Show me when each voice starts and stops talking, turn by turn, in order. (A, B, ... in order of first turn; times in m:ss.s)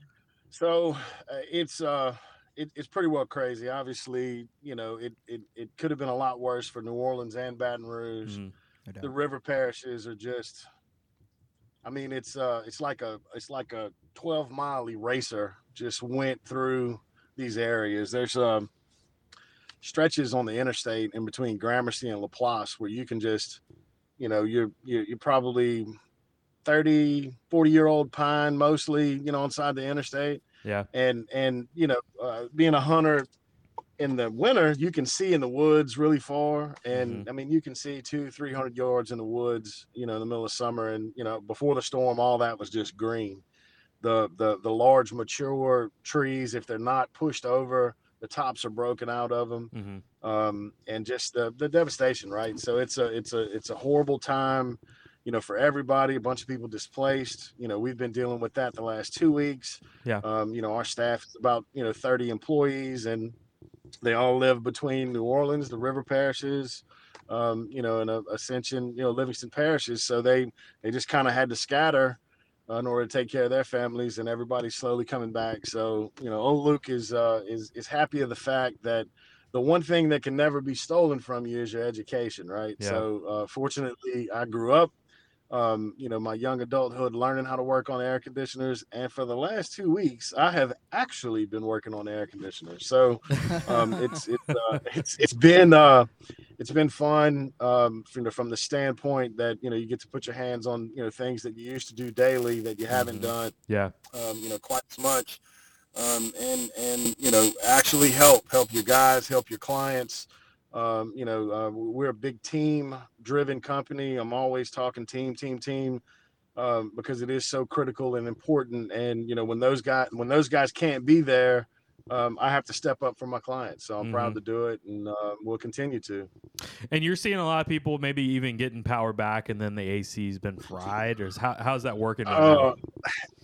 0:00.5-0:08.4 A
0:08.2-0:08.5 B
0:09.0-0:10.6 A
0:11.8-0:18.7 A
0:19.8-0:23.6 A
0:24.2-0:25.9 A
0:26.6-0:33.3 A
0:34.0-0:43.4 A
0:36.9-0:37.3 B
0:44.0-1:03.3 A
0:49.7-0:50.0 B
1:04.0-1:24.9 A
1:22.8-1:23.0 B
1:25.5-1:43.5 A
1:42.9-1:44.0 B
1:44.1-1:45.4 A
1:45.9-1:56.0 A
1:56.6-2:06.3 A
2:04.0-2:04.4 B
2:06.9-2:12.7 B
2:12.2-2:12.8 A